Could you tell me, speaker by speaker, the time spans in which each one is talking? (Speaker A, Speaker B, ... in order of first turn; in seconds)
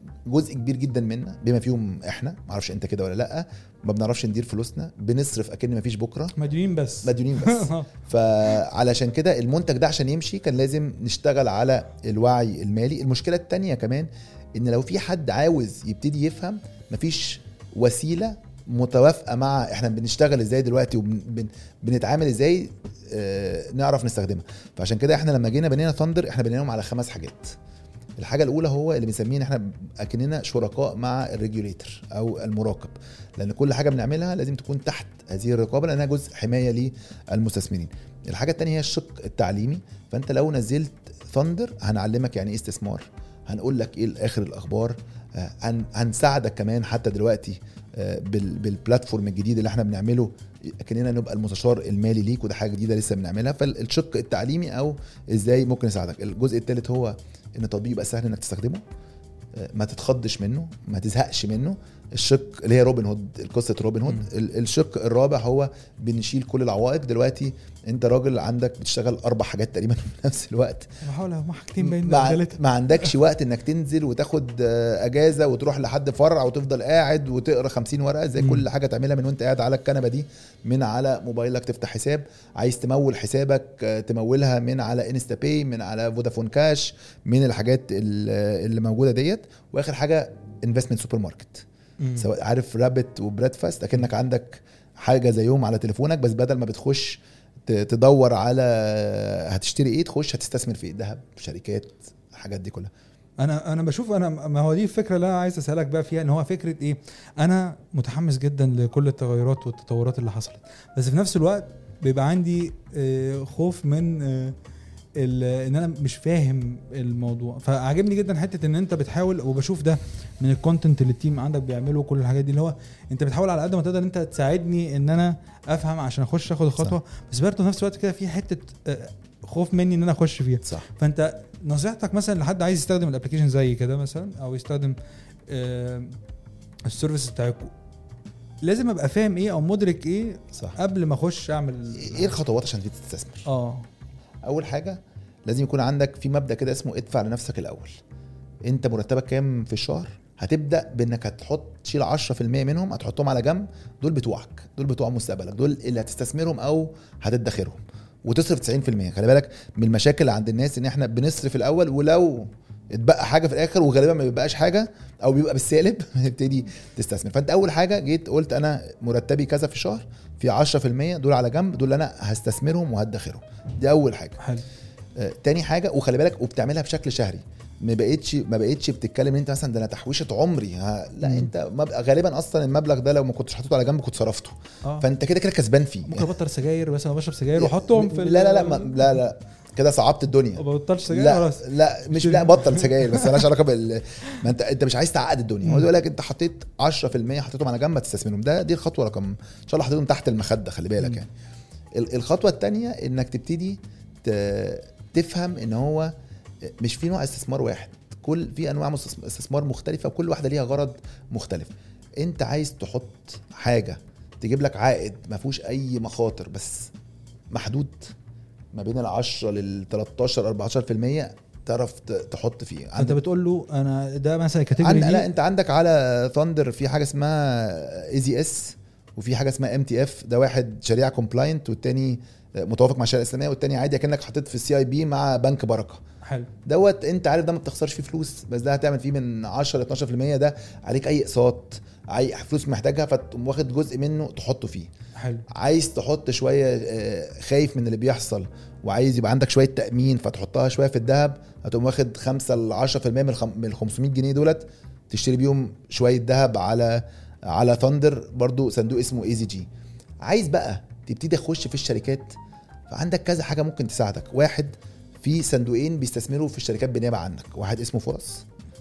Speaker A: 0.3-6.3, 7.0-27.6, 28.2-58.8, 59.5-70.9, 71.8-91.6, 92.2-102.9, 141.9-143.4, 144.4-148.0, 148.6-174.4, 175.2-186.3, 187.5-201.3, 201.9-206.1, 206.8-216.9, 217.5-218.1, 218.7-223.2, 224.8-236.0, 236.6-244.9, 245.5-259.7, 260.2-262.3, 262.9-268.4
Speaker B: 6.3-7.9, 71.0-72.6, 78.4-78.6, 92.0-92.3, 103.4-114.5, 115.2-134.9, 135.5-136.2, 136.8-137.7, 138.6-142.3, 143.4-143.8, 174.4-174.6, 181.2-181.5, 186.1-189.2, 190.6-193.4, 222.9-225.3, 236.2-236.5, 245.2-245.4